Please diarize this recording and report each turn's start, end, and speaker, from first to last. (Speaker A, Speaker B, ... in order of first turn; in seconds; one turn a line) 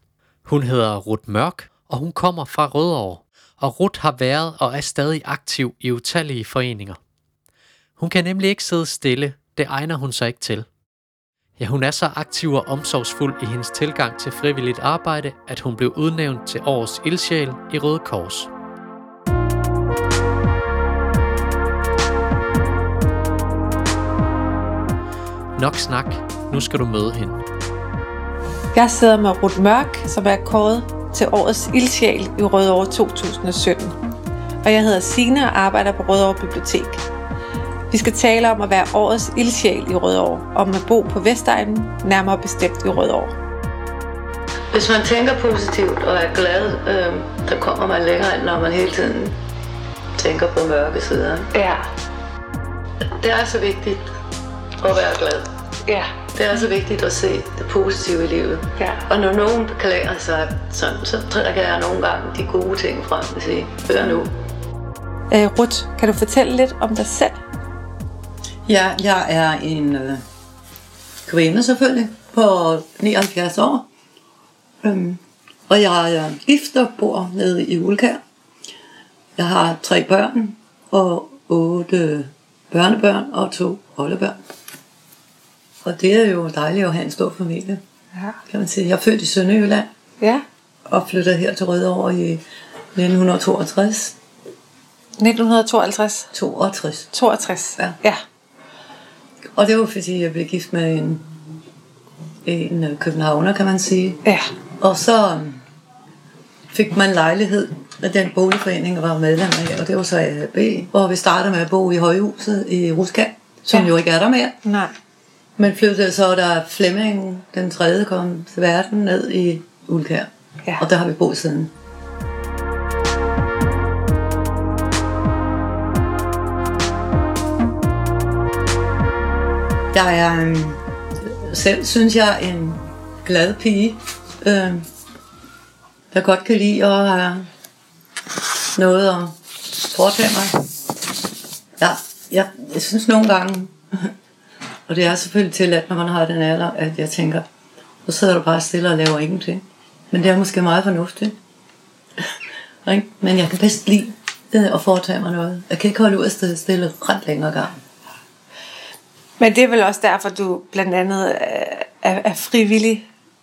Speaker A: 0.5-7.0
Speaker A: 8.0-10.7
Speaker A: 11.6-18.5
Speaker A: 25.5-27.4
Speaker B: 28.7-34.0
Speaker B: 34.6-37.0
Speaker B: 37.9-43.4
Speaker C: 44.7-49.4
Speaker C: 50.2-51.5
Speaker B: 51.5-51.9
Speaker C: 53.2-54.1
Speaker C: 54.8-55.5
Speaker B: 55.9-56.1
Speaker C: 56.4-64.3
Speaker B: 58.8-59.0
Speaker B: 65.3-67.4
Speaker C: 68.7-70.2
Speaker C: 71.2-73.9
Speaker C: 74.8-78.2
Speaker C: 79.4-84.3
Speaker C: 85.8-87.8
Speaker C: 88.5-89.9
Speaker B: 90.2-90.4
Speaker C: 90.9-92.4
Speaker C: 92.9-94.1
Speaker B: 95.2-96.3
Speaker C: 96.3-97.1
Speaker B: 97.1-98.2
Speaker C: 99.6-101.2
Speaker C: 102.4-104.2
Speaker C: 104.8-105.6
Speaker C: 106.7-114.5
Speaker B: 114.6-114.9
Speaker C: 115.6-120.3
Speaker C: 120.8-121.7
Speaker C: 129.9-134.8
Speaker C: 136.1-137.4
Speaker C: 138.8-139.4
Speaker C: 139.9-140.6
Speaker C: 141.8-144.1
Speaker C: 144.9-147.4
Speaker C: 148.1-151.4
Speaker C: 152.8-157.8
Speaker B: 159.4-163.1